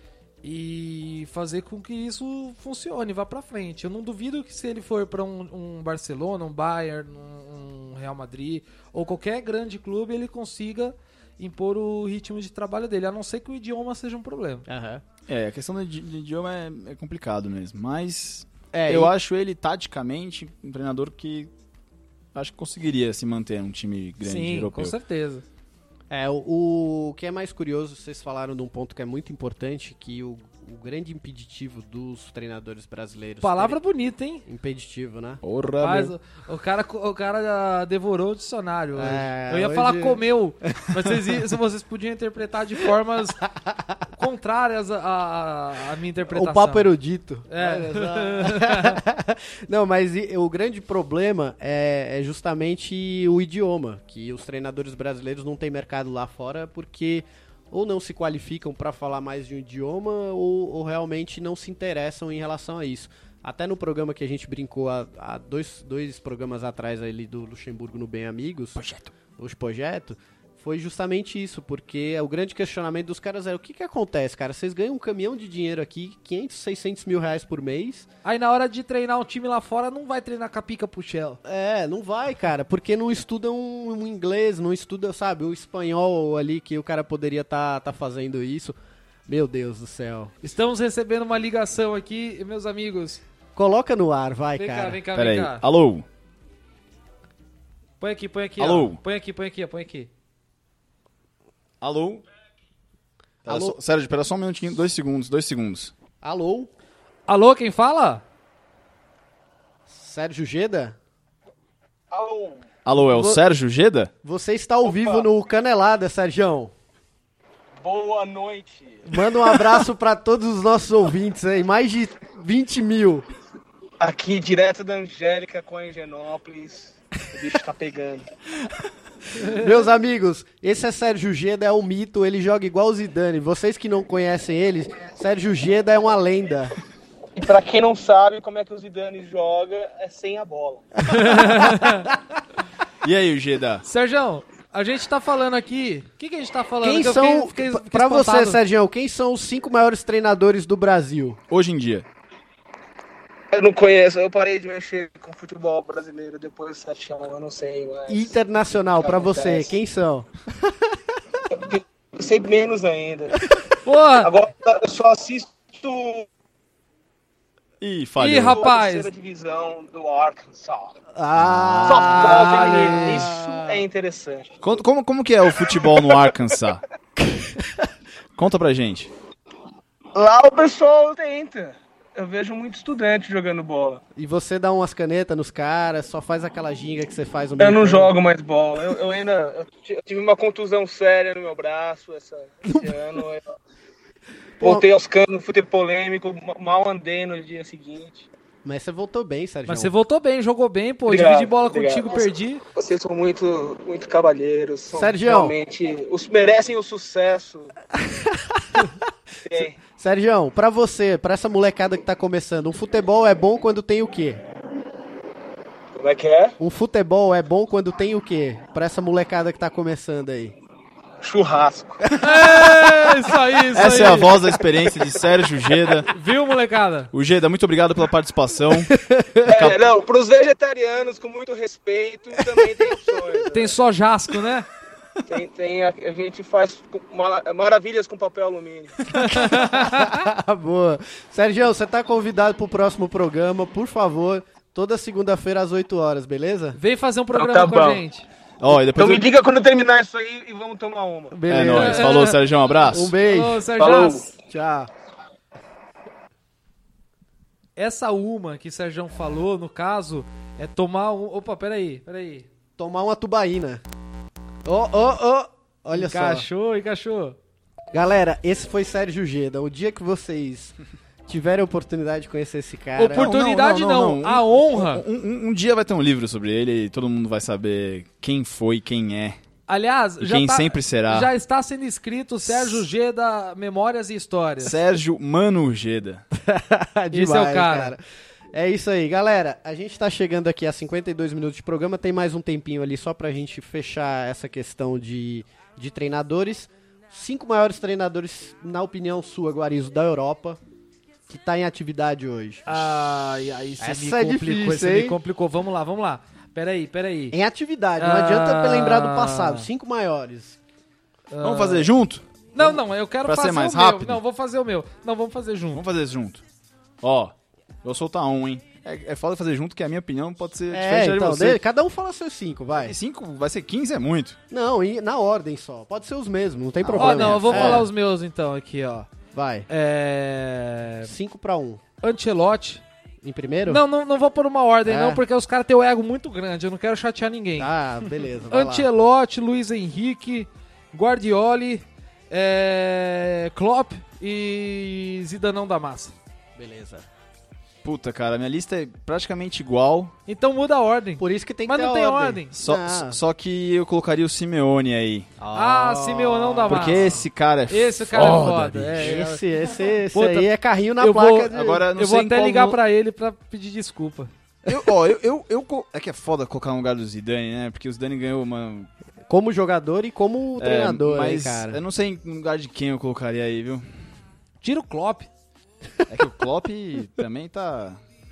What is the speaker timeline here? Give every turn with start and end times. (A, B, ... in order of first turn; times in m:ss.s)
0:00.4-0:14.6 A
0:14.6-0:15.0 B
0:15.3-0:21.5 C
0:18.7-0:19.1 B
0:22.3-0:24.9 C
0:24.2-0:25.4 A
0:26.1-0:33.8 B
0:33.4-0:34.4 A
0:34.4-0:35.4 B
0:35.4-0:36.1 C
0:35.8-0:43.4 A
0:39.0-0:40.2 B
0:44.1-0:46.9 A
0:46.3-1:08.8 B
0:47.5-0:49.0 A
1:08.8-1:09.1 C
1:09.3-1:18.1 B
1:18.2-1:21.4 A
1:21.4-1:28.8 B
1:29.3-1:30.3 B
1:30.4-1:33.2 A
1:33.5-1:35.0 B
1:34.6-1:35.6 A
1:35.1-1:36.0 C
1:38.0-1:40.1 A
1:38.6-1:39.0 C
1:41.8-1:42.2 C
1:43.4-1:45.9 C
1:43.4-1:43.8 B
1:46.2-1:46.7 B
1:47.3-1:48.2 A
1:49.9-1:51.0 B
1:52.1-1:52.6 D
1:52.8-1:54.1 C
1:53.0-1:53.4 B
1:54.2-1:56.7 B
1:54.8-1:55.2 D
1:57.8-1:59.2 D
1:59.1-2:03.2 B
2:04.0-2:08.3 D
2:09.4-2:16.7 B
2:17.4-2:21.1 D
2:21.1-2:22.1 A
2:23.0-2:23.8 C
2:23.8-2:28.6 A
2:26.8-2:31.4 B
2:31.5-2:32.0 C
2:33.5-2:38.3 D
2:38.1-2:41.0 B
2:39.0-2:39.7 D
2:41.5-2:43.6 D
2:43.8-2:44.3 A
2:44.2-2:46.3 D
2:47.8-2:48.6 C
2:48.2-2:49.1 A
2:48.5-2:51.0 D
2:51.1-2:53.8 B
2:51.4-2:51.9 C
2:51.8-2:54.6 D
2:52.1-2:53.3 A
2:54.6-2:56.8 C
2:55.8-2:56.2 D
2:58.4-2:59.1 C
3:00.1-3:04.0 D
3:04.1-3:08.1 B
3:07.6-3:13.6 D
3:14.6-3:14.8 B
3:14.6-3:18.3 D
3:18.6-3:19.9 B
3:19.6-3:22.6 A
3:21.0-3:27.7 D
3:24.9-3:25.5 B
3:28.0-3:28.9 B
3:29.4-3:29.8 D
3:29.8-3:34.4 B
3:35.9-3:36.6 D
3:36.6-3:40.5 B
3:41.2-3:42.0 D
3:42.2-3:44.4 A
3:43.7-3:46.1 C
3:46.1-3:47.1 A
3:47.1-3:49.0 C
3:48.7-3:49.6 B
3:49.4-3:53.8 D
3:49.5-3:49.8 C
3:52.4-3:52.9 B
3:53.5-3:54.7 A
3:55.2-3:59.1 D
3:59.1-4:00.2 A
3:59.3-4:06.8 B
4:06.8-4:08.2 A
4:07.3-4:08.0 D
4:08.6-4:09.3 C
4:08.9-4:11.4 D
4:11.3-4:13.7 B
4:11.5-4:13.1 C
4:11.7-4:12.4 A
4:13.2-4:14.3 A
4:13.8-4:14.3 D
4:14.4-4:14.9 B
4:17.8-4:22.5 A
4:22.8-4:23.8 B
4:24.6-4:26.5 B
4:25.9-4:27.4 A
4:27.9-4:30.8 B
4:31.3-4:33.3 B
4:33.0-4:35.0 A
4:33.1-4:39.4 C
4:39.7-4:44.8 A
4:40.2-4:41.3 C
4:42.5-4:42.8 C
4:44.6-4:46.2 C
4:46.3-5:00.6 B
4:47.1-4:48.0 A
5:01.3-5:02.8 B
5:02.6-5:07.4 A
5:03.8-5:05.2 B
5:07.3-5:10.6 B
5:08.0-5:09.7 A
5:11.3-5:11.9 A
5:11.4-5:14.2 C
5:12.5-5:15.8 A
5:15.7-5:16.4 C
5:17.0-5:21.6 C
5:20.7-5:23.0 B
5:22.8-5:24.4 C
5:24.5-5:27.9 B
5:26.8-5:27.9 C
5:27.0-5:29.1 A
5:29.3-5:29.7 B
5:29.7-5:31.1 A
5:31.0-5:31.8 B
5:32.0-5:32.8 A
5:33.2-5:33.8 B
5:33.7-5:37.7 A
5:34.8-5:35.2 B
5:37.6-5:38.9 B
5:38.4-5:46.2 A
5:46.6-5:47.1 B
5:47.8-5:50.1 C
5:50.3-5:52.5 A
5:51.2-5:53.2 B
5:52.5-5:55.3 C
5:55.4-5:57.2 B
5:55.5-5:59.4 A
5:56.7-5:59.2 C
5:58.9-6:01.9 B
6:00.1-6:04.3 A
6:01.5-6:02.8 C
6:04.6-6:08.9 C
6:09.3-6:11.8 B
6:10.6-6:13.8 C
6:14.6-6:15.3 A
6:16.1-6:18.0 C